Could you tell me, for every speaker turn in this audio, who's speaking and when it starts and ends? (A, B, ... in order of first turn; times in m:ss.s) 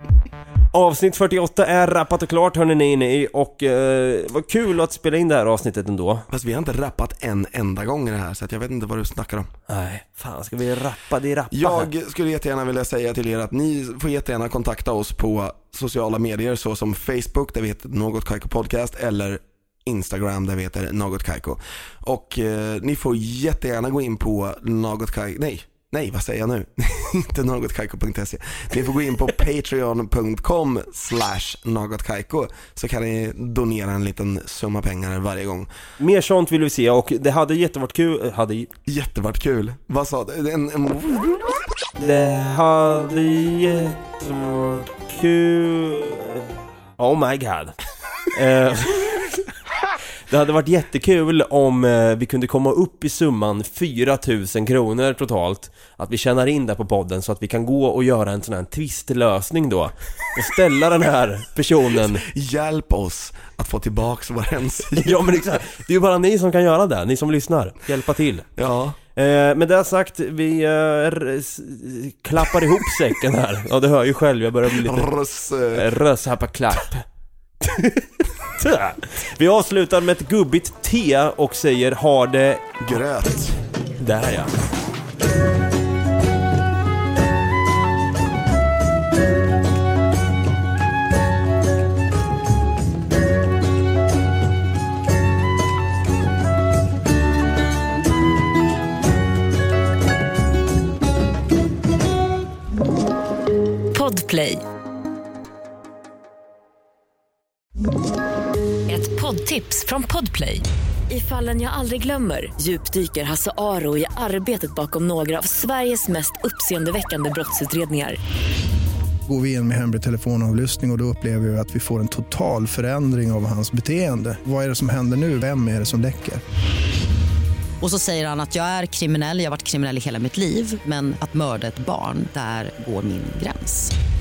0:00.7-0:06.2 A
0:06.3-0:09.5 B
0:09.7-0:11.9 A
0:11.5-0:35.7 B
0:36.0-0:38.7 A
0:38.8-0:41.5 B
0:42.0-0:47.7 A
0:48.3-0:49.4 A
0:50.3-1:02.2 A
1:02.0-1:05.3 B
1:05.0-1:08.5 A
1:08.6-1:09.0 B
1:09.1-1:15.1 A
1:14.7-1:15.9 B
1:15.7-1:17.0 A
1:17.6-1:23.0 A
1:22.8-1:23.6 B
1:24.0-1:24.5 A
1:43.9-1:44.6 C
1:48.9-1:58.2 C
1:59.3-2:06.4 D
2:07.8-2:13.9 E